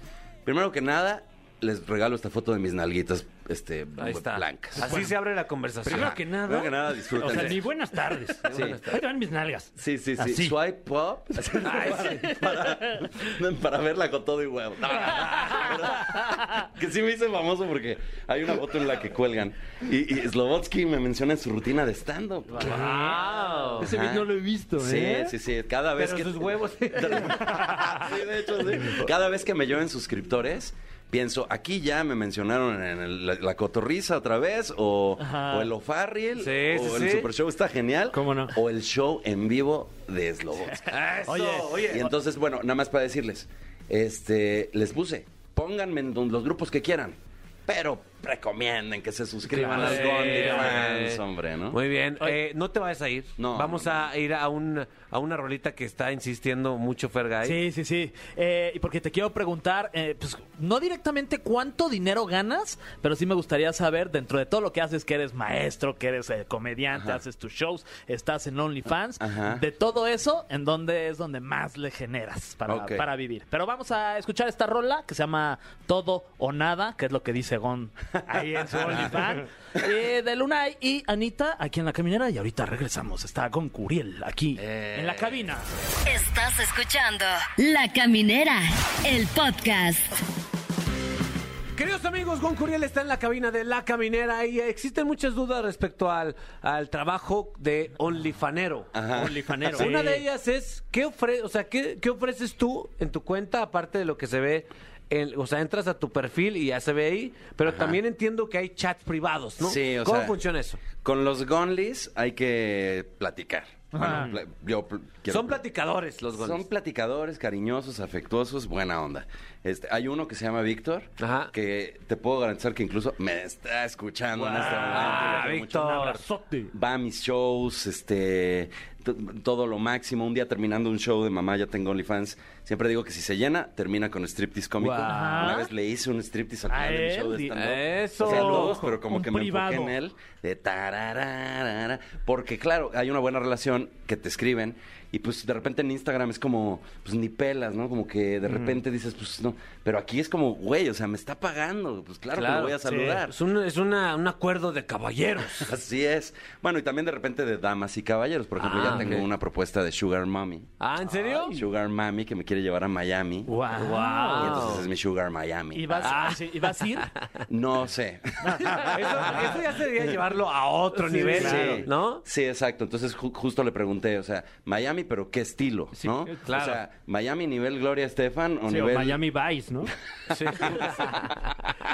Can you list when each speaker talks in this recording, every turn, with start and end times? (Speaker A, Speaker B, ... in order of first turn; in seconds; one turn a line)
Speaker A: 0.5-5.0
Speaker B: 4.0-6.2
Speaker C: 4.9-5.1
Speaker C: 5.8-10.6
Speaker A: 5.9-7.6
Speaker B: 7.2-7.6
Speaker B: 8.5-8.9
Speaker A: 8.5-9.0
Speaker A: 9.8-22.9
Speaker B: 11.6-12.4
Speaker B: 22.5-23.9
Speaker C: 22.6-23.2
Speaker C: 23.8-25.3
Speaker A: 23.8-40.9
Speaker B: 26.0-27.6
Speaker D: 35.2-35.7
Speaker B: 36.4-37.3
Speaker C: 38.1-38.5
Speaker B: 40.9-42.1
Speaker D: 41.3-41.9
Speaker A: 41.7-51.8
Speaker D: 49.5-50.0
Speaker B: 49.7-57.6
Speaker A: 53.4-54.0
Speaker D: 57.4-85.7
Speaker A: 66.9-67.2
Speaker A: 69.2-69.6
Speaker A: 72.7-73.1
Speaker A: 78.8-79.1
Speaker A: 84.6-85.4
Speaker E: 86.1-90.1
Speaker B: 91.8-98.9
Speaker A: 98.9-99.9
Speaker C: 99.1-100.2
Speaker B: 99.7-110.8
Speaker A: 107.7-108.0
Speaker A: 109.6-115.6
Speaker D: 113.9-114.3
Speaker B: 115.3-116.7
Speaker A: 116.2-126.2
Speaker B: 121.2-121.5
Speaker D: 124.4-125.2
Speaker C: 124.5-126.7
Speaker B: 124.8-126.2
Speaker A: 126.7-153.3
Speaker B: 134.8-135.5
Speaker D: 135.0-135.7
Speaker D: 136.7-137.5
Speaker B: 137.6-138.8
Speaker D: 138.2-139.9
Speaker B: 152.3-155.7
Speaker D: 152.9-153.2
Speaker A: 155.6-163.5
Speaker B: 158.6-159.3
Speaker B: 160.8-161.7
Speaker C: 163.5-164.8
Speaker B: 163.8-164.9
Speaker A: 164.4-166.3
Speaker D: 165.7-167.1
Speaker A: 167.5-169.5
Speaker D: 168.4-168.8
Speaker B: 168.8-172.2
Speaker A: 171.3-179.2
Speaker C: 171.3-171.8
Speaker B: 176.0-176.8
Speaker C: 178.7-179.9
Speaker B: 180.3-181.3
Speaker A: 180.6-181.3